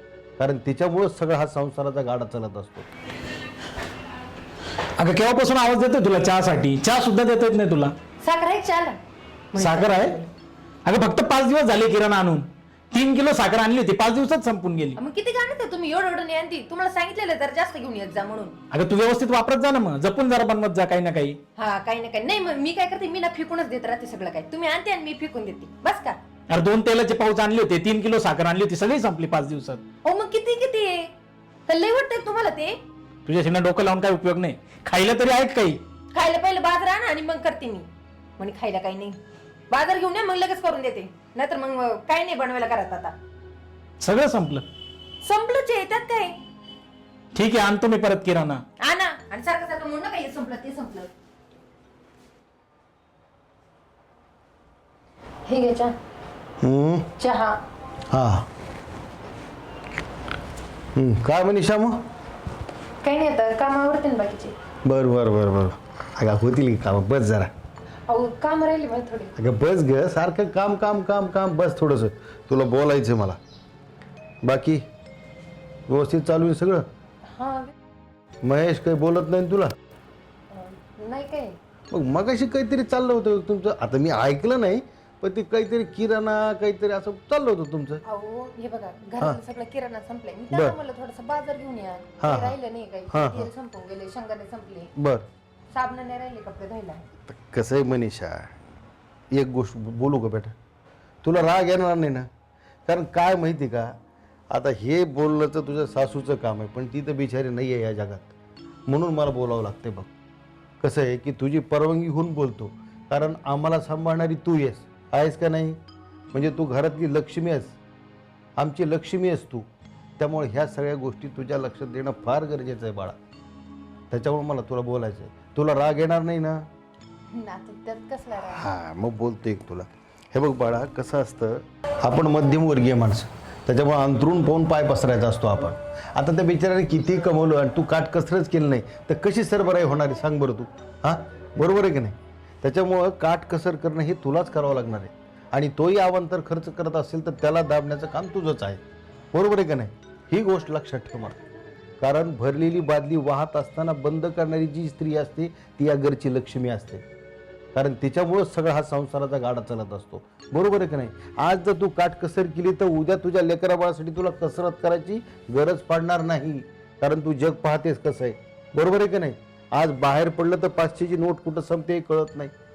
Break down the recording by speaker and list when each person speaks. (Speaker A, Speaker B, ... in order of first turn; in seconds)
Speaker A: 0.4-2.9, 56.6-57.1, 58.1-58.5, 60.9-62.0, 64.8-67.5, 69.3-73.4, 74.4-74.8, 75.9-76.8, 78.4-79.7, 81.9-88.0, 92.2-92.6, 93.1-93.5, 95.0-95.2, 97.3-98.5, 99.3-100.5, 101.2-102.3, 102.9-104.0, 104.5-108.3, 108.9-110.1, 110.8-115.8, 116.3-117.8, 118.6-119.7, 120.2-123.2, 124.1-126.7, 128.3-151.4, 152.0-157.0, 157.7-172.5
Speaker B: 5.0-7.9, 9.5-10.2, 10.8-15.0, 18.7-21.4, 26.5-29.8, 33.2-35.8, 44.0-44.7, 47.3-48.6
Speaker C: 8.2-9.0, 9.5-10.3, 15.0-18.6, 21.6-26.2, 30.0-31.1, 31.7-32.8, 36.1-39.2, 39.7-43.1, 45.2-46.4, 48.8-51.1, 55.5-55.9, 57.2-57.6, 63.0-64.5, 68.1-69.3, 77.3-77.7, 80.5-81.6, 88.0-94.9, 95.7-97.0, 127.3-128.7